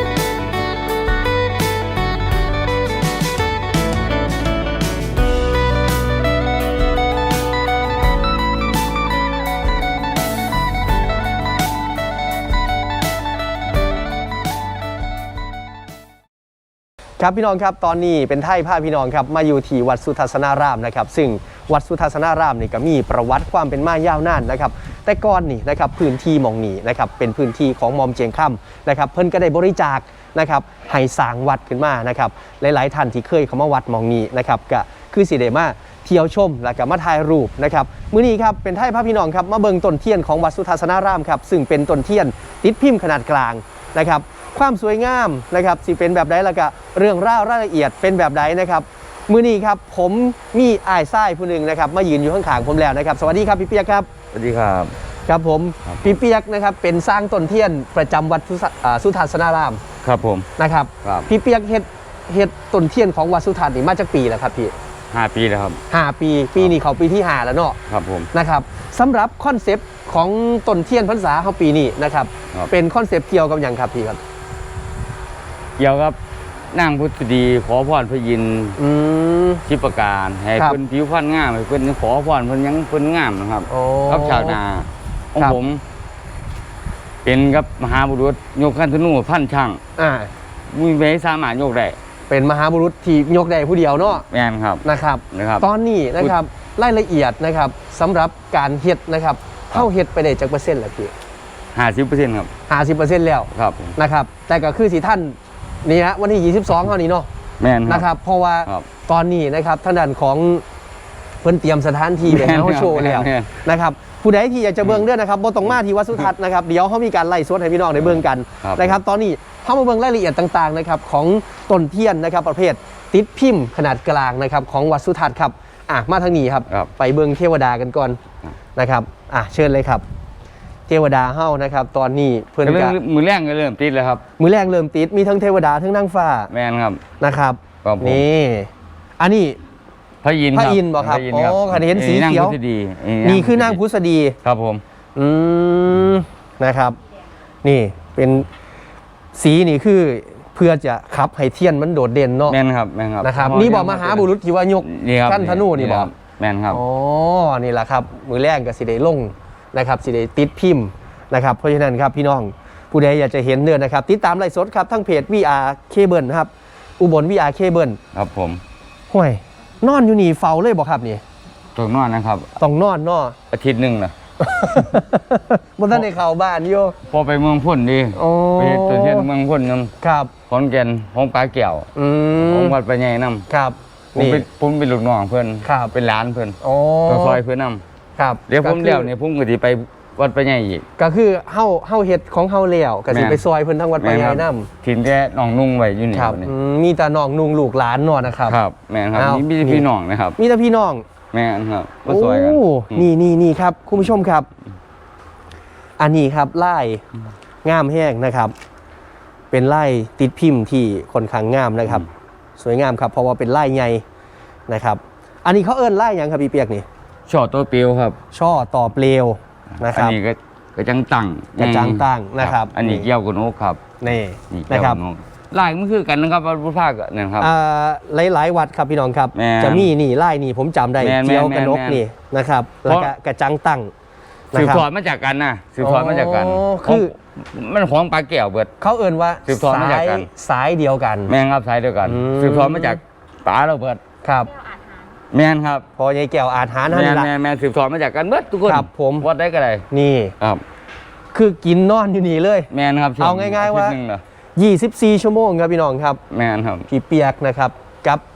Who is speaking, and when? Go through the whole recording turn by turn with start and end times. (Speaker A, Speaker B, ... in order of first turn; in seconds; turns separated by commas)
Speaker A: 17.2-54.1, Speaker B: 54.3-54.9, Speaker A: 55.3-59.8, Speaker B: 55.9-56.1, Speaker B: 60.0-60.5, Speaker A: 60.6-64.7, Speaker B: 61.0-61.3, Speaker B: 65.1-65.8, Speaker A: 65.9-67.8, Speaker B: 67.9-68.3, Speaker A: 68.3-74.2, Speaker B: 75.8-76.2, Speaker B: 76.7-78.8, Speaker A: 78.8-79.6, Speaker B: 79.7-85.8, Speaker A: 83.7-84.6, Speaker B: 87.2-89.8, Speaker A: 90.0-90.3, Speaker B: 90.7-92.0, Speaker A: 92.3-94.2, Speaker B: 94.3-95.7, Speaker A: 94.8-101.1, Speaker B: 101.7-102.5, Speaker A: 102.7-107.3, Speaker B: 103.5-103.9, Speaker B: 107.6-108.1, Speaker A: 107.8-110.6, Speaker A: 111.4-128.2, Speaker B: 112.2-113.5, Speaker B: 118.6-118.9, Speaker A: 128.8-130.0, Speaker A: 130.9-132.9, Speaker B: 132.6-134.2, Speaker A: 134.4-136.5, Speaker B: 136.5-137.0, Speaker A: 137.2-139.6, Speaker B: 137.8-138.2, Speaker B: 140.2-143.8, Speaker A: 140.5-142.6, Speaker A: 143.2-144.4, Speaker B: 144.4-144.8, Speaker A: 145.1-147.0, Speaker A: 147.6-148.5, Speaker A: 149.3-152.6, Speaker B: 152.5-154.3, Speaker A: 153.2-156.1, Speaker B: 154.8-156.8, Speaker A: 156.7-168.0, Speaker B: 168.1-168.6, Speaker A: 169.1-171.2, Speaker B: 171.7-172.5, Speaker A: 172.6-173.4, Speaker B: 173.5-174.1, Speaker A: 174.4-177.0, Speaker B: 177.1-179.9, Speaker A: 178.1-179.3, Speaker A: 180.0-180.3, Speaker B: 180.5-181.9, Speaker A: 181.9-182.8, Speaker B: 182.4-183.5, Speaker A: 183.5-184.4, Speaker B: 184.1-186.6, Speaker A: 185.6-185.9, Speaker A: 186.6-187.4, Speaker B: 187.1-187.8, Speaker A: 188.2-189.1, Speaker B: 188.5-190.8, Speaker A: 191.0-194.7, Speaker B: 193.1-193.4, Speaker B: 194.0-196.5, Speaker A: 196.1-198.6, Speaker B: 198.5-200.4, Speaker A: 199.1-201.0, Speaker B: 201.3-203.1, Speaker A: 202.1-204.5, Speaker A: 206.0-207.0, Speaker A: 207.6-208.5, Speaker A: 209.5-212.1, Speaker A: 212.6-214.0, Speaker A: 214.7-216.8, Speaker B: 217.3-218.2, Speaker A: 218.3-220.2, Speaker B: 219.8-223.8, Speaker A: 221.6-223.1, Speaker A: 224.0-225.0, Speaker B: 224.5-227.5, Speaker A: 227.4-233.9, Speaker B: 229.3-229.9, Speaker B: 231.0-232.0, Speaker B: 232.8-233.1, Speaker A: 234.5-234.9, Speaker B: 234.5-238.7, Speaker A: 235.8-237.1, Speaker A: 238.8-241.3, Speaker B: 239.4-240.3, Speaker B: 241.3-244.0, Speaker A: 242.0-243.0, Speaker A: 244.2-244.5, Speaker B: 245.3-245.8, Speaker A: 245.9-247.3, Speaker B: 246.9-249.8, Speaker A: 248.6-249.3, Speaker A: 249.9-250.3, Speaker A: 251.3-254.0, Speaker B: 252.7-254.2, Speaker A: 254.6-256.2, Speaker B: 256.3-256.9, Speaker A: 256.9-258.2